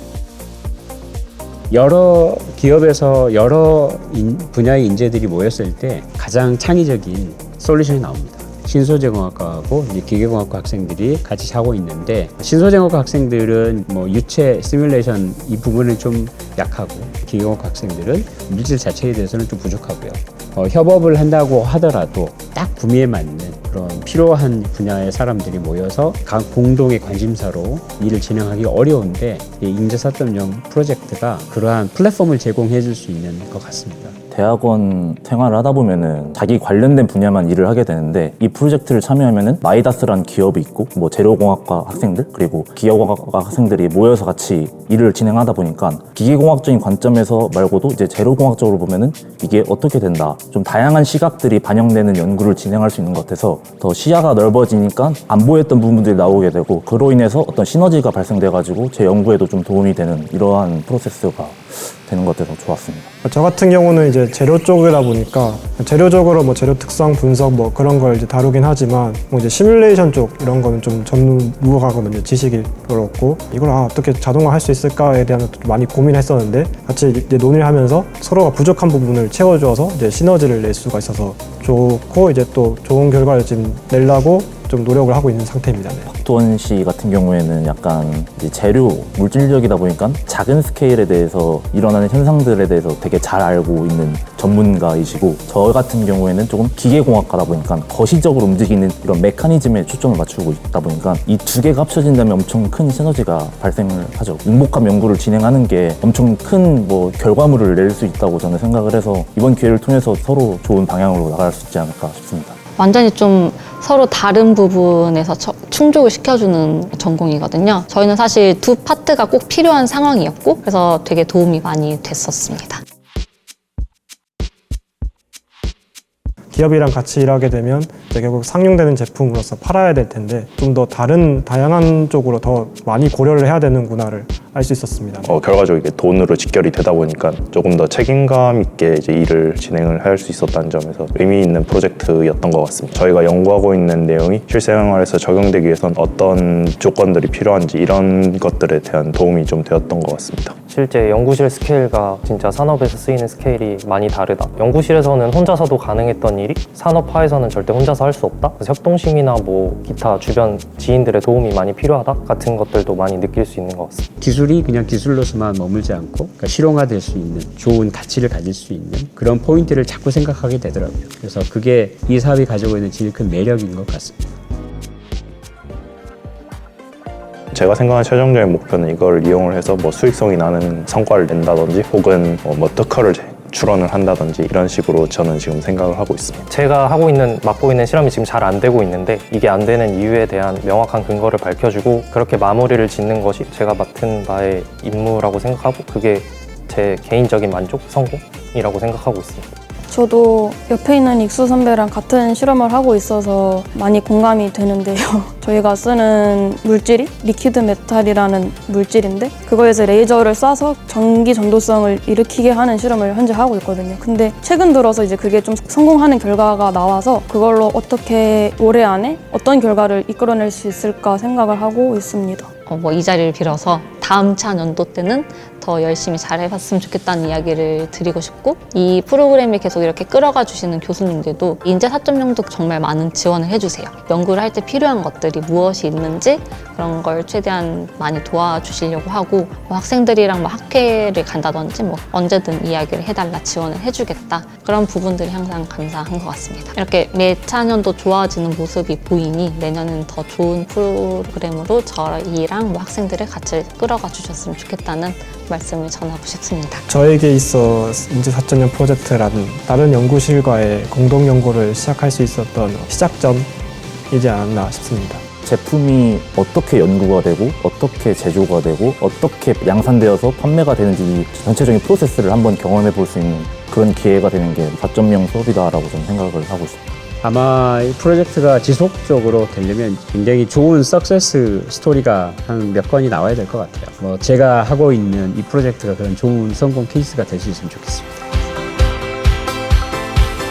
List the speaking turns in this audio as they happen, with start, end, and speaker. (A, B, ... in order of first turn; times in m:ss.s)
0:01.7-0:34.2 A
0:34.3-1:03.1 B
1:03.2-1:26.1 C
1:26.1-1:52.6 B
1:52.8-2:02.8 D
2:06.5-2:15.3 C
2:15.2-2:30.6 E
2:30.7-2:44.1 F
2:44.2-2:54.2 A
2:57.5-3:06.5 E
3:06.5-3:19.5 F
3:19.9-3:42.5 G
3:42.7-4:16.8 D
4:16.9-4:23.5 C
4:24.1-4:25.2 C
4:25.4-4:36.8 B
4:37.2-4:48.2 A